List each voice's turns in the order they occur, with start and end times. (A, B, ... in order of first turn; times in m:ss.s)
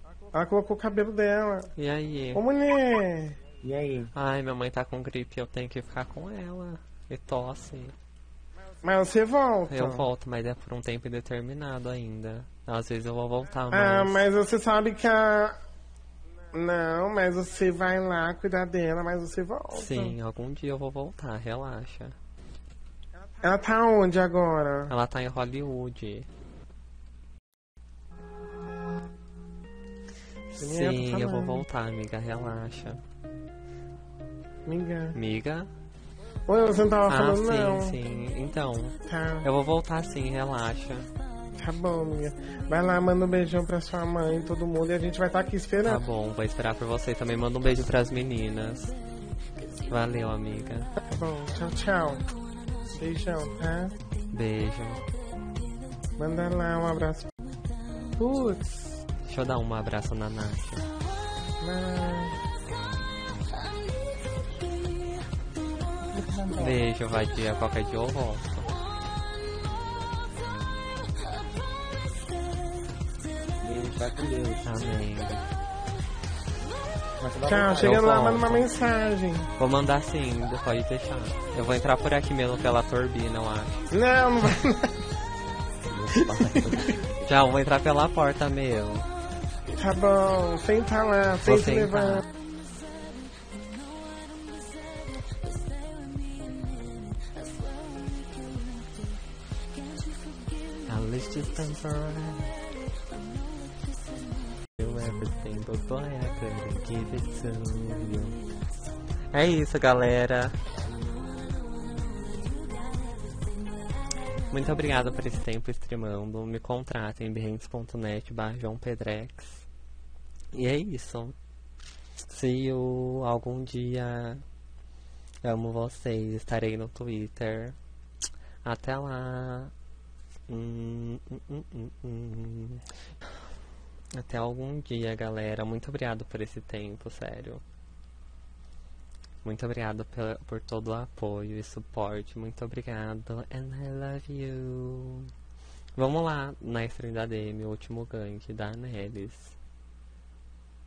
0:00.3-0:01.7 A
0:01.8-0:02.4 B
0:02.3-0:03.4 A
0:03.6-0:04.1 C
0:04.1-0:07.9 B
0:08.8-0:10.1 A
0:09.7-0:14.2 B
0:13.7-0:15.6 A
0:16.5-0:20.2 A
0:19.7-0:22.2 B
0:23.4-0:24.9 A
0:24.9-0:26.3 B
0:30.5-0:33.0 B
0:30.6-0:31.6 A
0:34.7-0:35.2 A
0:35.2-0:35.7 B
0:36.5-0:38.0 A
0:37.0-0:41.1 B
0:39.1-0:39.5 A
0:41.6-0:46.0 A
0:45.8-0:49.0 B
0:49.9-0:50.9 B
0:51.0-0:52.3 A
0:52.9-0:54.0 A
0:54.3-0:55.1 B
0:56.2-0:57.3 A
0:58.2-0:58.8 A
0:59.2-1:00.9 B
1:01.6-1:02.4 A
1:06.5-1:08.7 B
1:13.6-1:14.6 C
1:14.6-1:15.4 B
1:17.2-1:17.9 C
1:17.5-1:19.5 A
1:17.6-1:18.7 B
1:19.6-1:23.9 B
1:23.9-1:25.0 A
1:25.9-1:26.3 C
1:26.2-1:27.0 A
1:27.2-1:29.1 B
1:29.8-1:32.2 A
1:31.4-1:32.3 B
1:40.9-1:42.7 B
1:44.8-1:48.5 B
1:49.3-1:50.6 B
1:54.5-1:59.7 B
2:00.5-2:01.4 B
2:02.3-2:04.4 B
2:05.4-2:07.8 B
2:08.6-2:09.7 B
2:10.5-2:12.8 B
2:14.1-2:17.6 B
2:19.4-2:25.3 B
2:26.0-2:29.6 B